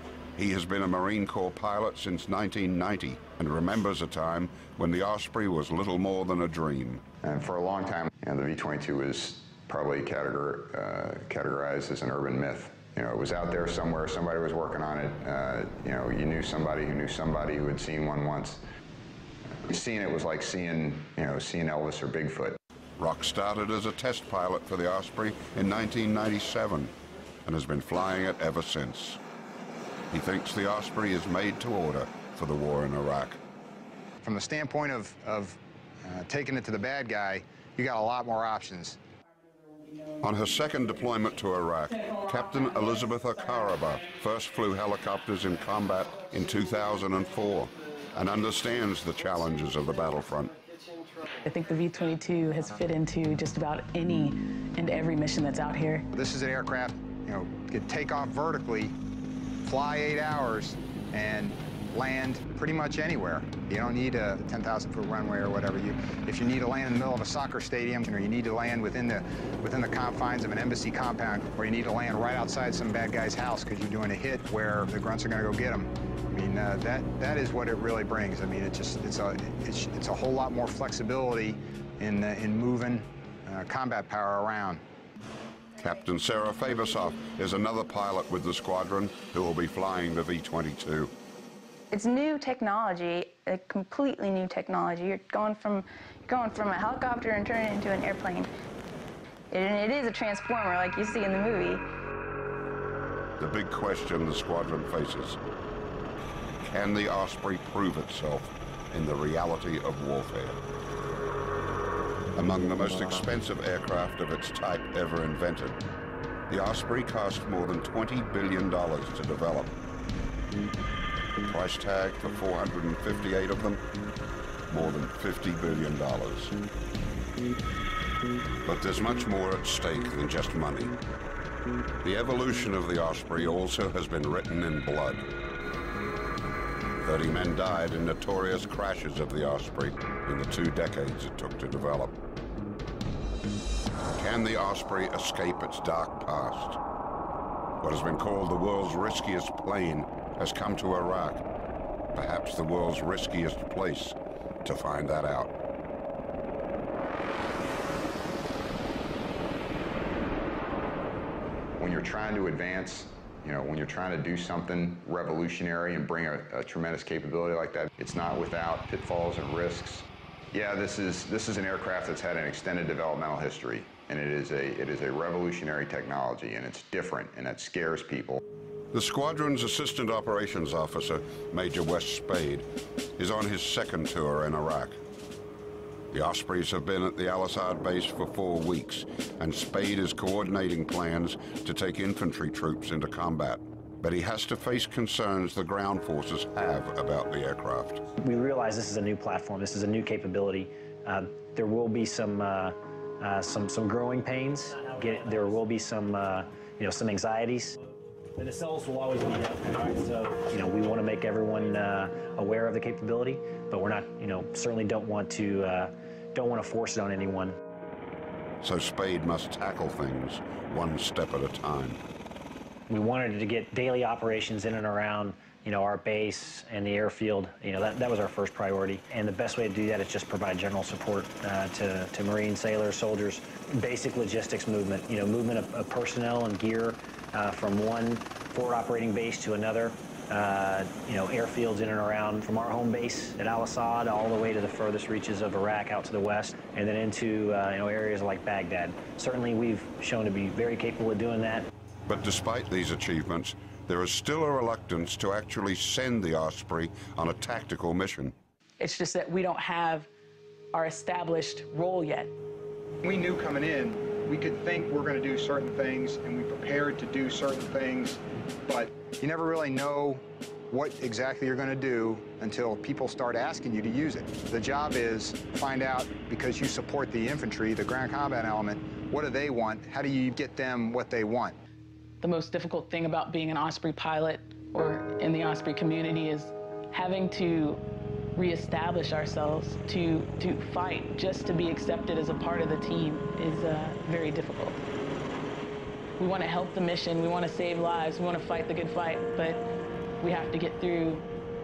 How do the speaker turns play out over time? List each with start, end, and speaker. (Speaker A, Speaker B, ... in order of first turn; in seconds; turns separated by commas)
Speaker A: 0.4-7.0, Speaker B: 7.2-18.6, Speaker B: 19.6-22.6, Speaker A: 23.0-26.9, Speaker A: 27.4-29.2, Speaker A: 30.1-33.4, Speaker C: 34.2-39.0, Speaker A: 40.2-50.6, Speaker D: 51.4-56.1, Speaker C: 56.1-59.0, Speaker C: 59.6-84.8, Speaker A: 85.8-91.1, Speaker E: 91.9-98.5, Speaker E: 99.5-101.8, Speaker A: 103.4-105.4, Speaker A: 106.6-110.6, Speaker A: 112.3-115.8, Speaker A: 116.5-119.8, Speaker A: 121.5-123.8, Speaker A: 124.7-126.5, Speaker A: 128.7-131.0, Speaker A: 132.0-135.3, Speaker A: 137.0-142.2, Speaker A: 144.1-146.8, Speaker A: 147.8-151.4, Speaker A: 152.1-155.5, Speaker B: 161.8-178.4, Speaker A: 178.9-185.0, Speaker A: 186.1-198.0, Speaker F: 198.2-207.8, Speaker F: 208.4-217.6, Speaker A: 218.6-222.0, Speaker F: 222.9-251.7, Speaker A: 252.1-258.4, Speaker D: 258.8-260.1, Speaker D: 260.7-262.3, Speaker C: 263.0-281.6, Speaker D: 282.2-287.8, Speaker D: 288.4-294.8, Speaker D: 296.2-299.6, Speaker D: 300.2-301.3